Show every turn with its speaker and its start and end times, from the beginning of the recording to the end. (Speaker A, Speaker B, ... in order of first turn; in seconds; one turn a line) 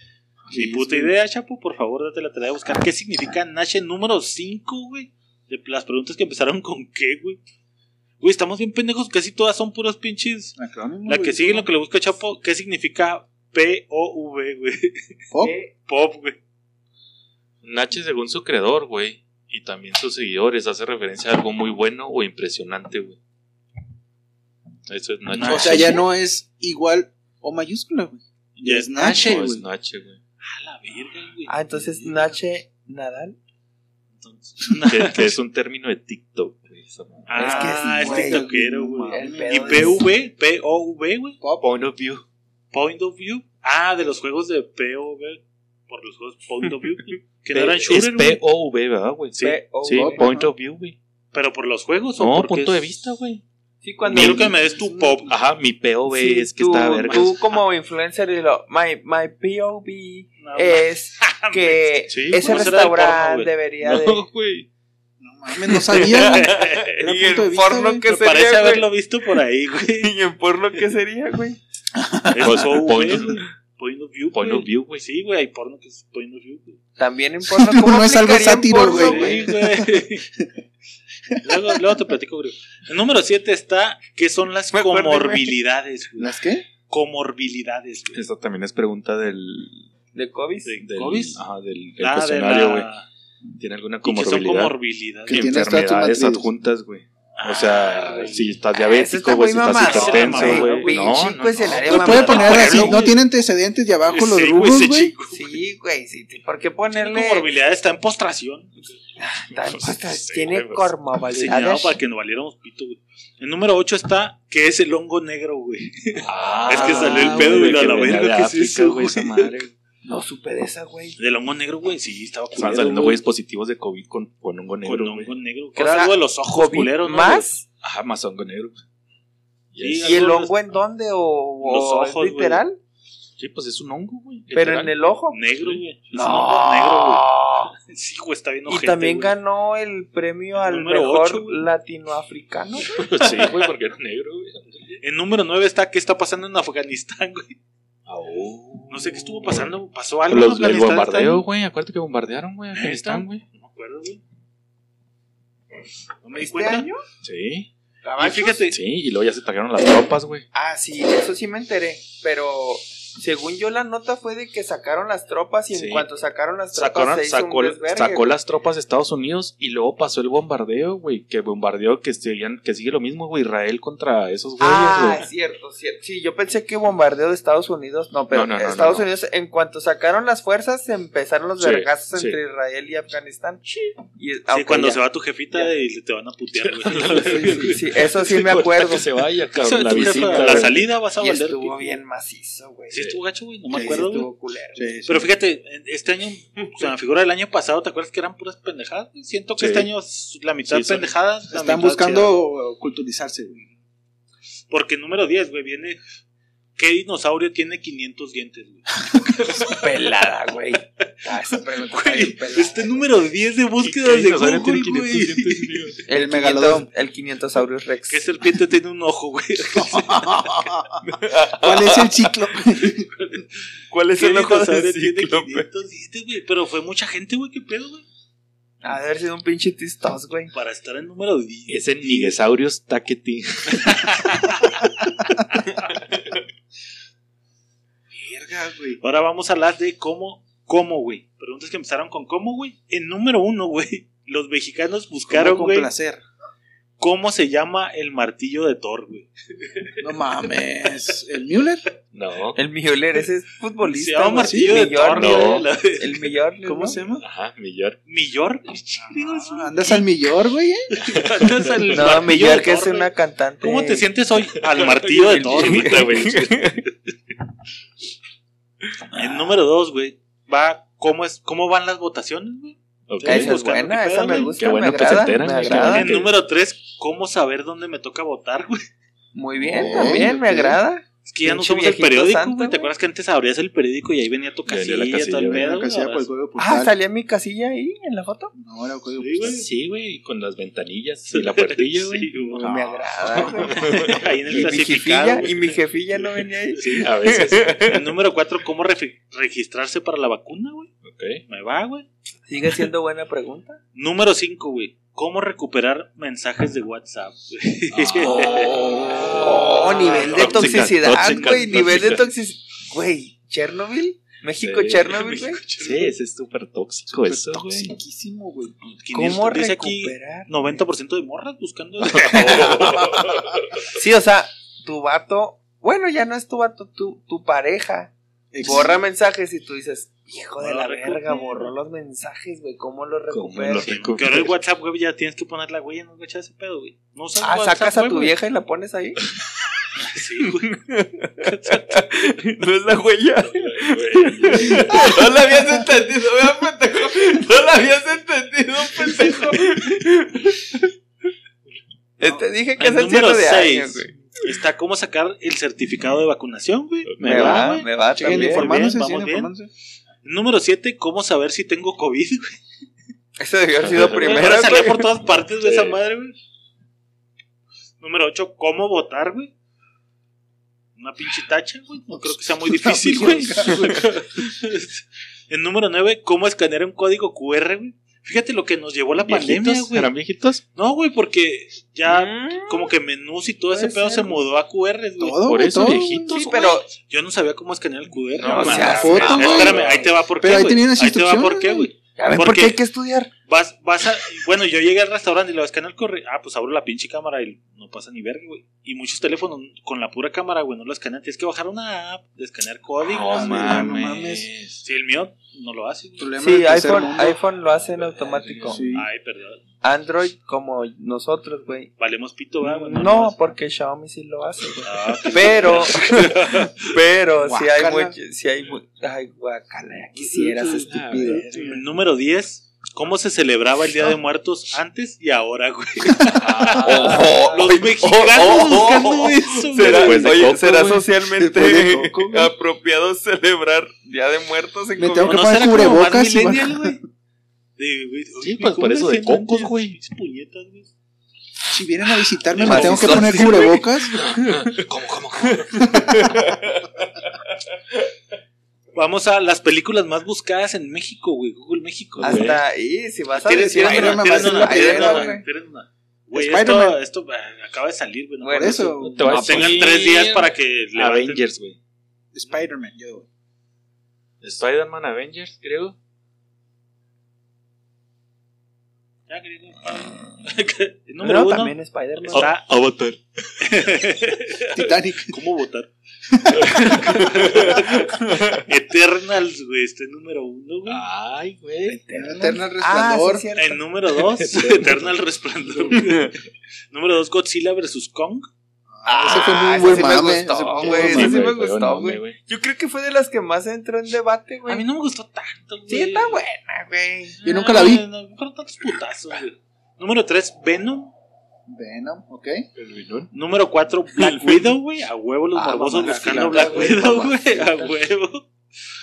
Speaker A: 0.5-1.1
Speaker B: 0.5-7.4
Speaker B: 8.2-15.2
Speaker A: 10.6-11.7
Speaker A: 15.3-15.6
Speaker C: 15.4-15.7
Speaker B: 15.8-16.4
Speaker D: 17.6-23.2
Speaker D: 24.9-26.0
Speaker B: 25.3-26.0
Speaker A: 25.4-29.6
Speaker B: 28.6-29.4
Speaker D: 28.9-30.2
Speaker B: 30.4-31.5
Speaker C: 31.5-33.4
Speaker B: 34.2-35.4
Speaker D: 34.9-37.8
Speaker B: 37.3-41.4
Speaker C: 37.4-38.5
Speaker A: 37.8-40.0
Speaker C: 39.1-40.0
Speaker A: 41.4-41.7
Speaker D: 41.6-42.2
Speaker B: 42.7-48.4
Speaker D: 47.5-51.0
Speaker C: 49.4-50.2
Speaker A: 49.9-50.5
Speaker B: 51.3-52.8
Speaker D: 52.2-53.4
Speaker C: 53.8-55.1
Speaker D: 54.1-54.6
Speaker B: 54.1-55.3
Speaker A: 54.7-55.3
Speaker D: 55.3-57.3
Speaker C: 56.1-64.2
Speaker B: 57.0-57.3
Speaker B: 60.4-63.5
Speaker D: 62.1-62.8
Speaker D: 63.8-64.7
Speaker A: 65.2-68.0
Speaker C: 65.9-68.9
Speaker B: 66.1-67.0
Speaker B: 68.1-70.1
Speaker C: 69.8-71.6
Speaker A: 71.9-72.7
Speaker B: 72.3-76.8
Speaker D: 72.4-73.5
Speaker D: 74.3-75.0
Speaker C: 77.0-79.4
Speaker A: 77.6-80.5
Speaker B: 78.7-80.3
Speaker A: 81.3-81.8
Speaker B: 81.4-86.4
Speaker C: 84.8-85.5
Speaker A: 86.2-86.7
Speaker B: 86.9-88.2
Speaker D: 88.1-89.8
Speaker C: 90.1-90.8
Speaker B: 90.7-91.4
Speaker D: 90.8-92.9
Speaker B: 92.0-93.0
Speaker D: 93.6-94.7
Speaker B: 94.0-95.5
Speaker A: 95.3-96.5
Speaker D: 95.3-102.5
Speaker B: 97.4-98.5
Speaker C: 98.8-103.0
Speaker B: 99.6-103.2
Speaker A: 101.8-105.1
Speaker B: 104.1-105.6
Speaker C: 105.3-107.5
Speaker B: 106.9-108.9
Speaker C: 109.2-112.0
Speaker D: 109.5-110.9
Speaker B: 111.3-119.5
Speaker D: 116.2-119.7
Speaker C: 116.8-117.3
Speaker C: 120.0-121.2
Speaker B: 121.2-123.2
Speaker D: 122.5-125.3
Speaker B: 124.8-127.5
Speaker C: 125.8-127.6
Speaker D: 127.8-128.8
Speaker D: 129.7-130.2
Speaker B: 129.8-130.5
Speaker C: 130.0-132.8
Speaker B: 131.6-132.6
Speaker D: 133.4-134.9
Speaker C: 134.5-135.4
Speaker B: 135.3-137.2
Speaker D: 135.6-135.8
Speaker C: 136.1-137.7
Speaker B: 137.8-139.3
Speaker C: 138.7-143.0
Speaker B: 140.6-141.6
Speaker D: 142.9-144.8
Speaker B: 143.1-143.7
Speaker B: 145.0-147.6
Speaker D: 148.1-153.4
Speaker B: 148.9-151.4
Speaker B: 152.7-154.2
Speaker B: 156.2-156.9
Speaker C: 156.4-157.0
Speaker D: 157.2-157.7
Speaker C: 158.0-158.6
Speaker B: 158.2-158.8
Speaker D: 158.7-160.4
Speaker C: 160.5-168.3
Speaker D: 165.7-166.1
Speaker D: 166.7-175.3
Speaker C: 174.6-183.6
Speaker D: 178.3-179.1
Speaker D: 181.6-182.4
Speaker C: 184.2-185.0
Speaker B: 184.5-187.8
Speaker D: 186.6-190.9
Speaker C: 187.2-189.1
Speaker B: 189.6-192.0
Speaker C: 189.8-193.0
Speaker B: 192.9-194.3
Speaker A: 193.7-194.1
Speaker C: 193.7-194.9
Speaker A: 194.8-195.3
Speaker B: 195.1-202.3
Speaker D: 199.6-199.9
Speaker D: 200.7-201.1
Speaker A: 201.5-203.5
Speaker B: 204.7-206.0
Speaker B: 206.8-209.8
Speaker C: 209.6-213.0
Speaker B: 211.3-215.9
Speaker D: 213.8-216.0
Speaker C: 216.1-218.3
Speaker A: 216.1-216.9
Speaker B: 218.1-220.6
Speaker A: 219.7-221.0
Speaker C: 221.0-222.1
Speaker A: 221.6-223.1
Speaker B: 222.8-223.5
Speaker C: 223.9-225.7
Speaker B: 224.2-228.0
Speaker C: 228.8-230.5
Speaker B: 230.5-232.4
Speaker D: 231.7-234.5
Speaker B: 233.8-234.8
Speaker A: 238.1-239.0
Speaker B: 239.0-245.9
Speaker A: 245.3-246.2
Speaker B: 247.0-250.0
Speaker A: 250.0-251.9
Speaker D: 252.1-252.6
Speaker C: 252.5-257.0
Speaker B: 253.8-256.3
Speaker A: 254.4-254.9
Speaker D: 255.1-255.7
Speaker A: 256.6-257.2
Speaker D: 257.2-258.0
Speaker B: 258.1-260.1
Speaker A: 258.9-260.9
Speaker B: 260.9-263.1
Speaker D: 261.1-262.1
Speaker C: 261.9-264.0
Speaker B: 263.6-266.1
Speaker D: 264.7-266.9
Speaker C: 265.3-266.8
Speaker C: 269.0-269.5
Speaker B: 269.1-274.6
Speaker D: 273.1-273.6
Speaker C: 273.2-276.1
Speaker D: 274.3-276.3
Speaker B: 275.5-278.9
Speaker C: 279.3-282.9
Speaker A: 279.6-280.8
Speaker D: 279.9-280.3
Speaker B: 281.2-286.3
Speaker D: 284.6-285.8
Speaker A: 285.4-286.9
Speaker C: 286.6-288.5
Speaker A: 288.5-289.6
Speaker B: 289.2-289.7
Speaker D: 289.5-294.6
Speaker B: 291.3-292.7
Speaker A: 292.5-293.5
Speaker C: 292.6-298.1
Speaker B: 293.5-295.8
Speaker D: 296.8-297.8
Speaker B: 297.8-300.9
Speaker D: 301.0-301.4
Speaker B: 301.5-302.1
Speaker C: 302.5-303.8
Speaker B: 303.9-309.0
Speaker D: 307.9-312.3
Speaker C: 308.6-315.6
Speaker B: 310.0-312.2
Speaker D: 314.6-317.9
Speaker B: 315.2-316.1
Speaker A: 317.2-318.7
Speaker B: 318.8-323.4
Speaker C: 319.1-320.8
Speaker D: 322.3-323.6
Speaker C: 323.9-333.9
Speaker A: 328.5-329.0
Speaker B: 330.6-331.7
Speaker D: 333.3-334.5
Speaker B: 333.8-338.3
Speaker C: 337.4-339.2
Speaker B: 340.0-340.8
Speaker C: 340.4-350.9
Speaker B: 341.4-342.1
Speaker D: 343.4-345.2
Speaker C: 352.2-354.1
Speaker B: 352.8-359.5
Speaker D: 357.1-357.7
Speaker C: 357.2-358.7
Speaker A: 358.1-359.7
Speaker B: 360.2-362.6
Speaker C: 363.4-365.2
Speaker D: 363.8-364.5
Speaker B: 364.1-366.4
Speaker D: 365.6-366.0
Speaker B: 368.0-369.5
Speaker B: 370.9-380.1
Speaker A: 372.7-374.2
Speaker D: 379.2-380.6
Speaker B: 380.7-392.8
Speaker C: 382.1-382.9
Speaker C: 383.7-384.4
Speaker A: 385.2-386.3
Speaker D: 385.4-386.5
Speaker C: 386.3-386.9
Speaker D: 388.4-390.1
Speaker C: 388.5-389.8
Speaker A: 388.5-391.9
Speaker C: 392.2-393.3
Speaker B: 393.5-403.9
Speaker D: 403.0-404.8
Speaker A: 403.3-404.5
Speaker B: 404.8-406.3
Speaker A: 406.2-407.4
Speaker C: 406.4-408.8
Speaker D: 407.7-408.9
Speaker A: 408.7-409.1
Speaker B: 408.9-409.6
Speaker C: 409.8-411.9
Speaker B: 412.0-413.3
Speaker C: 412.9-421.5
Speaker B: 414.8-416.8
Speaker A: 417.4-418.1
Speaker A: 420.2-421.9
Speaker D: 420.4-421.4
Speaker B: 421.5-430.4
Speaker D: 426.3-427.3
Speaker C: 426.8-435.9
Speaker D: 429.7-432.1
Speaker A: 431.4-432.5
Speaker A: 435.0-437.0
Speaker B: 435.2-437.0
Speaker B: 437.8-440.9
Speaker D: 438.4-440.0
Speaker A: 441.7-444.1
Speaker D: 442.5-443.6
Speaker C: 442.6-444.7
Speaker D: 444.1-446.6
Speaker C: 445.9-446.5
Speaker B: 448.9-452.5
Speaker C: 452.2-455.4
Speaker D: 452.2-452.6
Speaker B: 453.3-461.4
Speaker A: 453.7-455.4
Speaker A: 456.3-457.0
Speaker C: 458.4-459.8
Speaker A: 458.5-459.5
Speaker D: 459.0-461.8
Speaker A: 462.3-463.2
Speaker D: 464.4-465.9
Speaker B: 469.3-472.7
Speaker C: 471.2-472.5
Speaker D: 472.3-474.1
Speaker B: 473.6-475.9
Speaker A: 474.7-475.4
Speaker A: 476.3-477.1
Speaker D: 476.6-478.3
Speaker B: 476.7-481.0
Speaker D: 480.9-482.0
Speaker C: 481.9-483.8
Speaker A: 482.1-483.5
Speaker B: 483.5-486.4
Speaker D: 484.2-485.2
Speaker B: 486.9-488.5
Speaker A: 488.9-491.4
Speaker C: 489.0-494.8
Speaker D: 490.7-492.4
Speaker B: 494.7-496.4
Speaker C: 495.9-497.4
Speaker B: 497.4-501.1
Speaker A: 497.4-498.1
Speaker A: 501.7-502.7
Speaker D: 502.8-503.3
Speaker B: 503.3-508.4
Speaker A: 504.3-504.7
Speaker C: 505.5-508.0
Speaker A: 506.0-507.1